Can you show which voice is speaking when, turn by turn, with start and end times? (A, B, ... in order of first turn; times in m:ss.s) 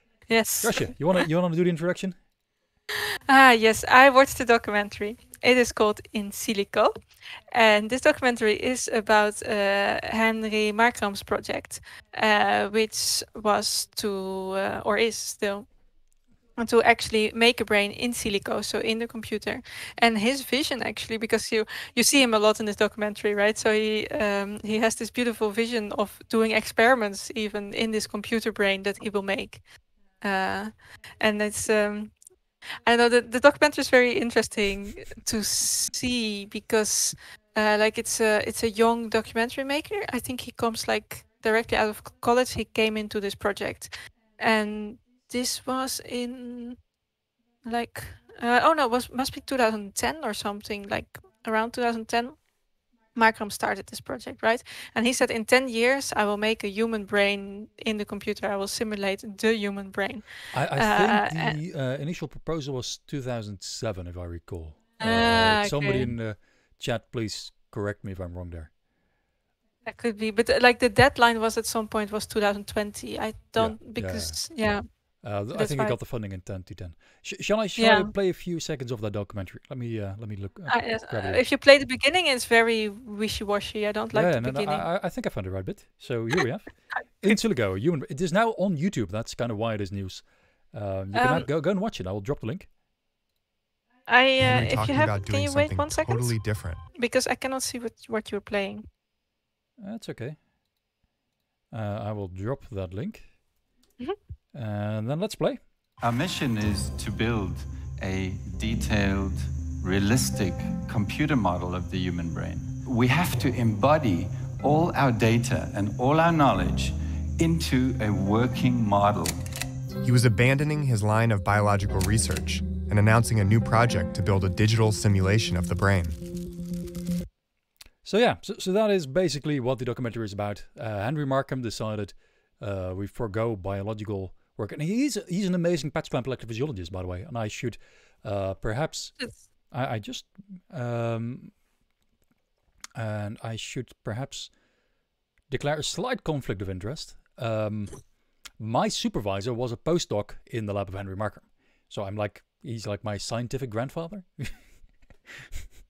0:00.3-0:01.2 A
0:00.6-0:02.2 B
0:03.3-0:15.8 A
0:16.6-0:46.9 A
0:47.6-1:01.6 A
1:00.5-1:08.7 B
1:05.0-1:06.1 A
1:09.8-1:16.0 A
1:13.6-1:21.4 B
1:17.8-1:18.1 A
1:20.7-1:24.9 A
1:24.1-1:32.7 B
1:31.1-1:31.5 A
1:34.0-1:38.9 A
1:34.4-1:36.8 C
1:39.8-1:40.4 B
1:41.7-1:43.4 B
1:44.5-1:45.6 B
1:46.0-1:59.4 D
2:00.0-2:06.2 C
2:08.0-2:19.2 B
2:19.7-2:21.6 B
2:23.0-2:24.5 B
2:25.5-2:34.6 B